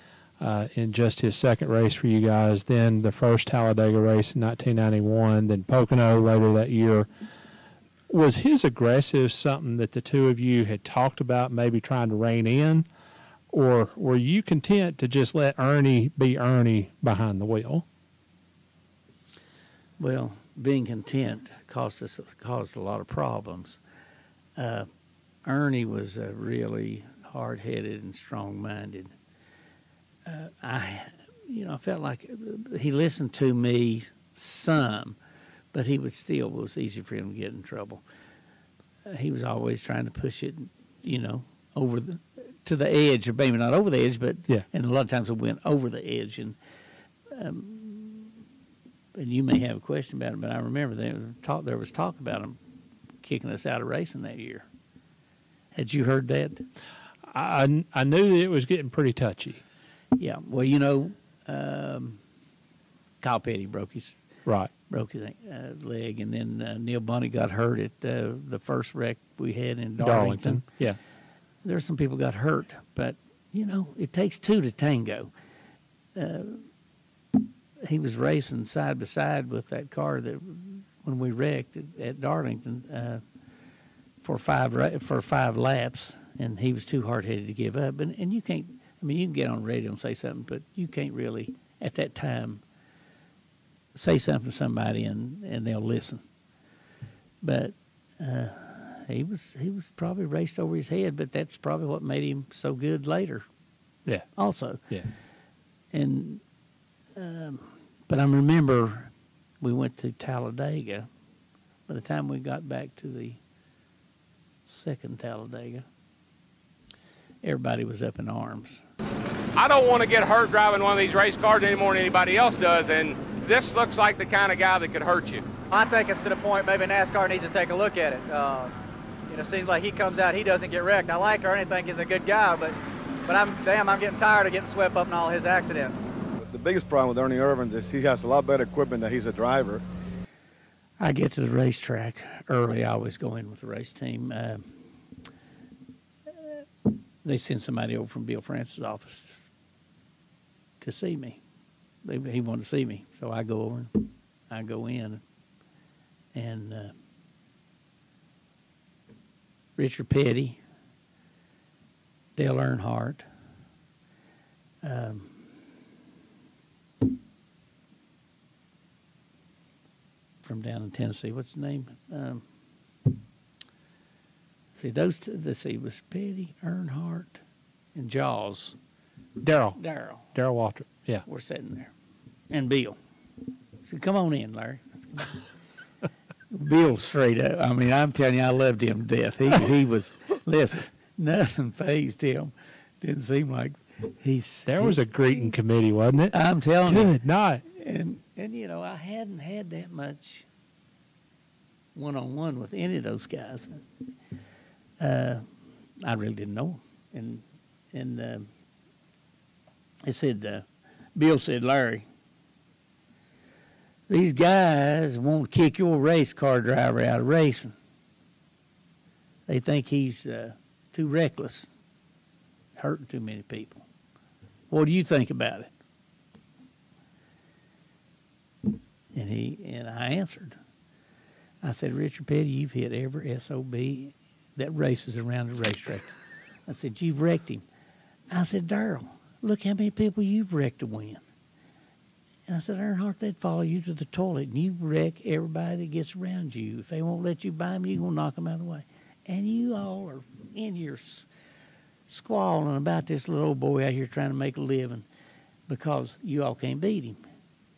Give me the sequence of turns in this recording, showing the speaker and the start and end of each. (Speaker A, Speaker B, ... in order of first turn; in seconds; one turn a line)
Speaker A: 0.4-7.1
Speaker A: 8.1-12.8
Speaker A: 13.5-17.8
Speaker B: 20.0-23.8
Speaker B: 24.6-24.9
Speaker B: 25.4-29.1
Speaker B: 30.2-35.1
Speaker B: 35.7-38.0
Speaker B: 39.0-46.6
Speaker B: 47.3-48.4
Speaker B: 49.1-52.6
Speaker B: 53.2-54.7
Speaker B: 55.7-56.6
Speaker A: 57.3-59.6
Speaker B: 60.2-62.2
Speaker B: 63.2-64.2
Speaker B: 64.9-70.6
Speaker A: 70.0-71.0
Speaker B: 71.6-75.3
Speaker B: 76.1-76.7
Speaker B: 77.8-83.2
Speaker B: 84.2-92.6
Speaker B: 93.9-96.2
Speaker B: 97.4-103.4
Speaker B: 104.3-104.8
Speaker B: 105.9-106.4
Speaker B: 107.2-111.1
Speaker B: 111.9-113.4
Speaker B: 114.7-115.8
Speaker B: 117.4-118.8
Speaker C: 119.5-125.4
Speaker D: 125.7-128.7
Speaker D: 129.3-136.1
Speaker E: 136.4-139.8
Speaker B: 141.0-144.6
Speaker B: 147.2-149.5
Speaker B: 150.8-151.4
Speaker B: 152.0-155.2
Speaker B: 156.3-156.9
Speaker B: 159.8-160.6
Speaker B: 162.3-163.2
Speaker B: 164.8-165.3
Speaker B: 170.4-172.4
Speaker B: 174.7-177.4
Speaker B: 177.9-178.7
Speaker A: 179.4-181.2
Speaker B: 179.8-180.3
Speaker B: 181.2-181.9
Speaker B: 182.5-182.9
Speaker B: 183.8-185.4
Speaker B: 186.5-195.0
Speaker A: 194.7-197.6
Speaker B: 196.3-197.2
Speaker B: 197.7-200.5
Speaker B: 201.9-203.8
Speaker B: 205.0-205.4
Speaker B: 206.0-208.5
Speaker B: 210.1-212.0
Speaker B: 214.1-217.7
Speaker B: 219.5-221.7
Speaker B: 222.8-223.8
Speaker B: 224.7-225.7
Speaker B: 229.1-230.6
Speaker B: 231.6-237.6
Speaker B: 238.3-241.2
Speaker B: 242.5-251.3
Speaker B: 252.1-255.1
Speaker B: 255.7-257.2